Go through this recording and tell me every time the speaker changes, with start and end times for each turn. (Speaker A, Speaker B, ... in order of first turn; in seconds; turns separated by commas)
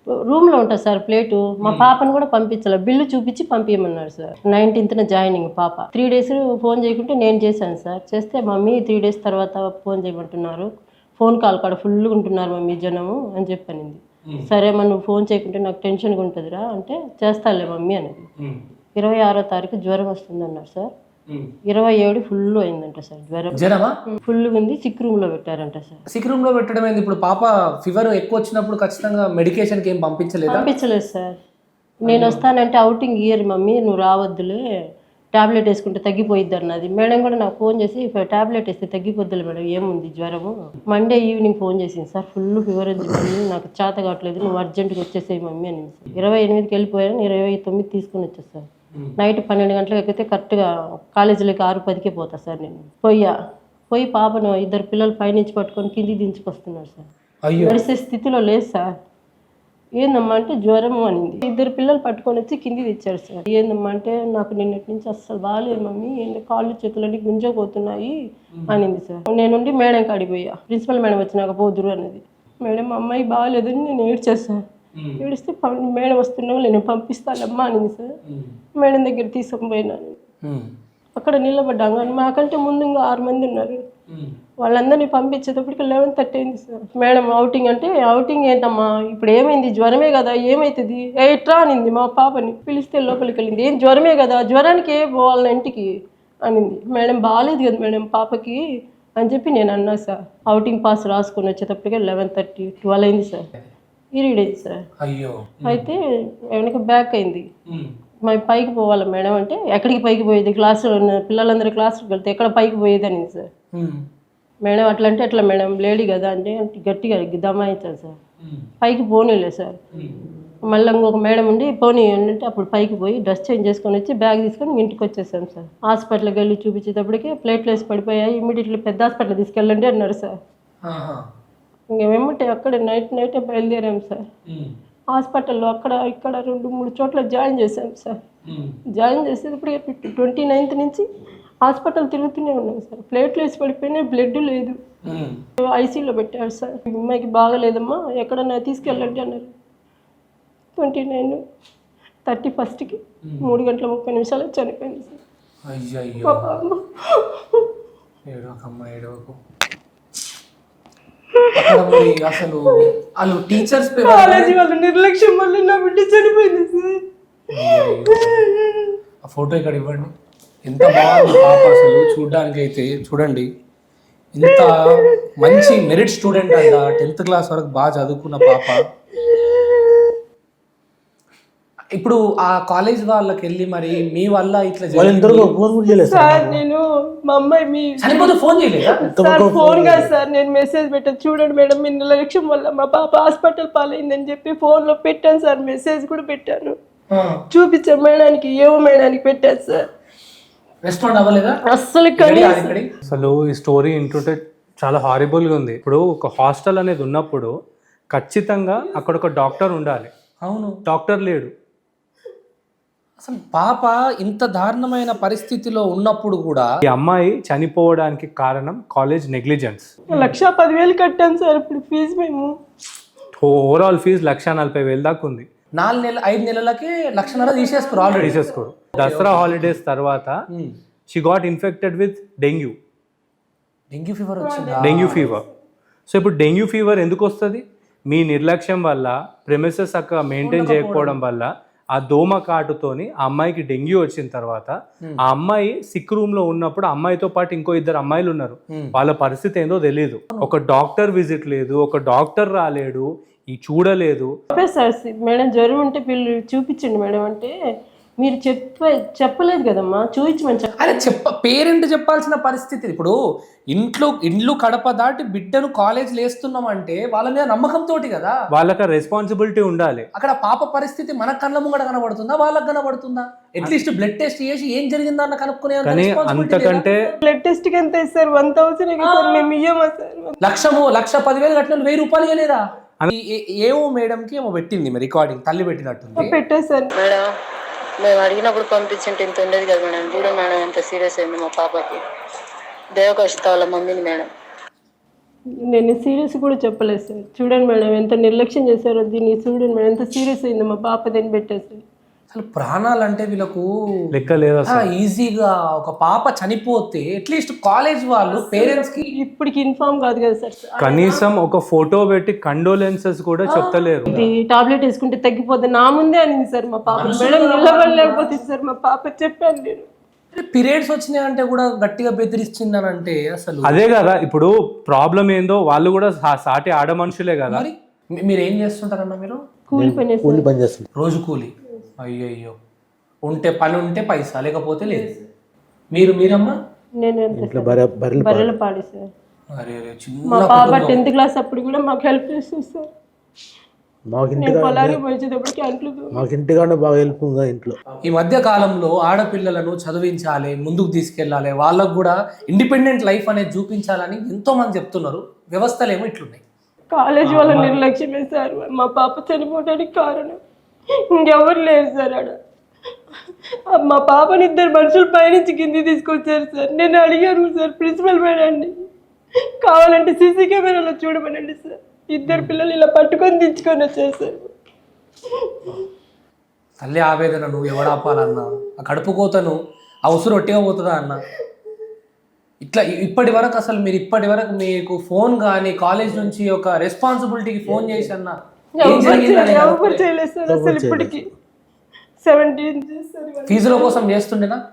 Speaker A: 0.3-10.7, Speaker B: 1.6-1.9, Speaker A: 11.2-18.2, Speaker A: 18.9-20.9, Speaker A: 21.7-26.0, Speaker B: 23.5-23.9, Speaker B: 26.1-30.7, Speaker A: 30.5-31.4, Speaker B: 32.1-32.4, Speaker A: 32.1-34.6, Speaker A: 35.3-48.6, Speaker A: 49.2-53.3, Speaker A: 53.9-57.0, Speaker B: 57.4-57.8, Speaker A: 57.6-58.9, Speaker A: 60.0-68.2, Speaker B: 68.5-68.8, Speaker A: 68.7-74.6, Speaker B: 75.0-75.2, Speaker A: 75.2-78.1, Speaker B: 78.3-78.5, Speaker A: 78.8-80.2, Speaker A: 81.2-83.8, Speaker B: 84.1-84.3, Speaker A: 84.6-95.9, Speaker A: 96.4-98.6, Speaker A: 99.2-103.5, Speaker A: 104.1-104.8, Speaker B: 105.0-105.9, Speaker A: 105.6-106.0, Speaker A: 106.5-107.5, Speaker A: 108.2-113.5, Speaker B: 113.7-114.0, Speaker A: 114.6-118.2, Speaker B: 118.4-118.7, Speaker A: 118.8-119.8, Speaker A: 120.7-130.3, Speaker B: 130.8-131.2, Speaker A: 131.9-134.2, Speaker A: 135.1-138.2, Speaker B: 138.5-138.8, Speaker A: 138.9-141.0, Speaker A: 141.7-144.8, Speaker B: 145.1-145.4, Speaker A: 145.6-149.5, Speaker A: 150.8-151.4, Speaker A: 152.2-155.2, Speaker B: 153.2-153.5, Speaker B: 155.7-156.5, Speaker A: 156.2-157.6, Speaker B: 158.3-159.4, Speaker A: 161.3-162.1, Speaker B: 161.6-164.6, Speaker A: 164.0-167.0, Speaker B: 167.5-168.4, Speaker A: 167.7-168.9, Speaker B: 169.2-170.1, Speaker B: 170.7-173.5, Speaker A: 170.8-172.1, Speaker B: 174.3-178.8, Speaker A: 175.5-175.8, Speaker A: 179.2-180.1, Speaker B: 182.0-185.5, Speaker C: 184.9-186.6, Speaker A: 186.0-196.8, Speaker B: 188.0-189.0, Speaker C: 189.1-190.1, Speaker B: 197.1-197.4, Speaker A: 197.5-199.8, Speaker B: 200.8-201.6, Speaker A: 201.7-202.8, Speaker B: 202.2-203.0, Speaker D: 203.1-207.5, Speaker D: 208.1-210.1, Speaker B: 210.4-210.8, Speaker D: 210.8-211.5, Speaker B: 213.2-216.7, Speaker D: 216.8-219.9, Speaker A: 220.1-222.5, Speaker D: 223.4-225.5, Speaker B: 225.8-228.4, Speaker A: 227.2-228.6, Speaker D: 228.2-230.3, Speaker B: 228.9-229.7, Speaker D: 231.1-232.8, Speaker B: 233.9-235.3, Speaker A: 234.4-235.5, Speaker D: 234.8-235.4, Speaker D: 236.1-244.7, Speaker B: 240.4-241.2, Speaker D: 245.3-254.3, Speaker A: 254.5-257.5, Speaker A: 258.2-260.9, Speaker B: 260.8-263.1, Speaker B: 263.7-268.3, Speaker D: 268.5-270.1, Speaker B: 270.1-276.9, Speaker D: 275.8-277.0, Speaker A: 276.9-280.4, Speaker B: 280.4-286.4, Speaker A: 286.1-286.9, Speaker E: 286.9-287.3, Speaker E: 288.0-292.0, Speaker E: 292.9-294.3, Speaker A: 295.7-301.8, Speaker B: 302.3-303.7, Speaker D: 304.1-304.9, Speaker B: 304.7-309.1, Speaker A: 308.2-311.3, Speaker D: 310.8-314.1, Speaker A: 313.5-319.9, Speaker B: 316.9-317.9, Speaker B: 320.3-323.8, Speaker D: 323.7-327.7, Speaker B: 327.5-329.4, Speaker A: 329.7-330.4, Speaker C: 329.7-330.9, Speaker B: 330.9-332.5, Speaker B: 333.3-335.1, Speaker A: 334.8-335.1, Speaker B: 335.9-336.5, Speaker A: 337.0-339.1, Speaker C: 337.3-338.5, Speaker B: 339.5-341.0, Speaker A: 340.3-342.9, Speaker C: 344.1-345.0, Speaker A: 344.4-346.2, Speaker C: 346.1-347.8, Speaker B: 348.0-356.4, Speaker A: 356.9-360.4, Speaker B: 357.2-357.7, Speaker A: 361.1-362.3, Speaker A: 363.7-368.7, Speaker A: 369.6-374.5, Speaker B: 372.2-372.5, Speaker B: 376.8-381.2, Speaker A: 377.8-378.3, Speaker B: 382.6-390.0, Speaker C: 387.7-388.1, Speaker A: 388.8-391.2, Speaker C: 390.5-391.2, Speaker A: 392.2-394.0, Speaker B: 393.5-394.6